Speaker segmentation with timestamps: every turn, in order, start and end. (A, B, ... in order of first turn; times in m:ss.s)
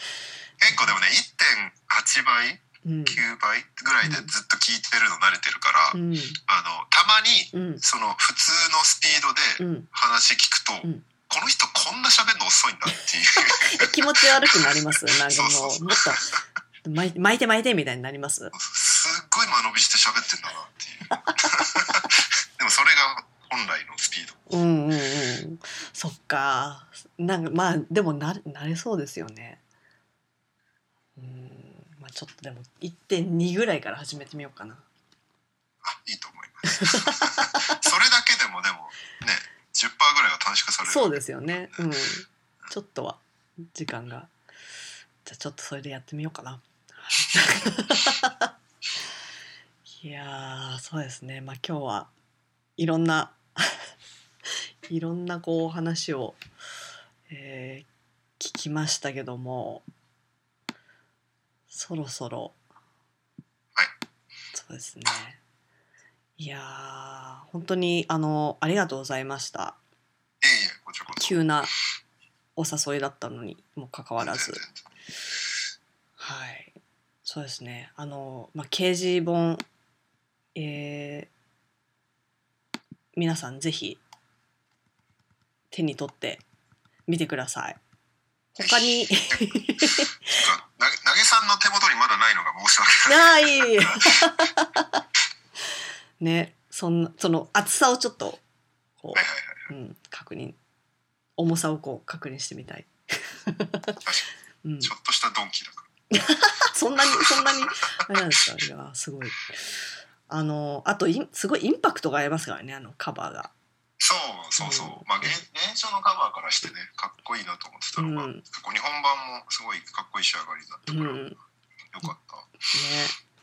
0:00.6-0:16.4 A
0:02.8-0:03.2 B
0:04.0-0:04.3 B
0:05.9-0:06.4 B
0:07.5-0:07.8 B
0:09.6-0:09.9 B
0:13.6-0:16.3 B
0:16.8-0:18.5 B
0:18.5-0:24.4 A
0:21.1-0:21.4 B
0:24.5-0:29.6 B
0:31.2-0:34.8 B
0:35.8-0:41.9 A
0:36.6-0:37.8 B
0:40.8-0:44.3 B
0:45.2-0:48.5 B
0:50.0-0:52.1 B
0:52.8-0:53.8 B
0:54.9-0:56.4 B
0:57.3-0:57.9 B
0:58.4-0:59.9 B
1:01.7-1:02.6 B
1:04.5-1:05.4 B
1:06.4-1:09.8 B
1:10.4-1:11.4 A
1:11.2-1:11.7 B
1:12.6-1:14.6 B
1:14.2-1:14.9 A
1:16.2-1:19.6 B
1:20.6-1:21.3 B
1:23.2-1:24.0 B
1:25.7-1:26.4 B
1:27.1-1:27.8 B
1:28.5-1:30.4 B
1:28.6-1:34.4 A
1:33.1-1:35.0 B
1:36.2-1:38.4 B
1:39.0-1:40.6 B
1:39.2-1:39.7 A
1:41.4-1:44.0 B
1:44.6-1:44.9 B
1:44.8-1:45.9 A
1:46.1-1:49.7 B
1:47.1-1:47.7 A
1:50.3-1:53.5 B
1:54.0-2:01.2 A
1:54.6-1:55.4 B
1:58.0-1:58.4 B
2:00.9-2:01.4 B
2:01.9-2:02.6 A
2:02.7-2:03.2 B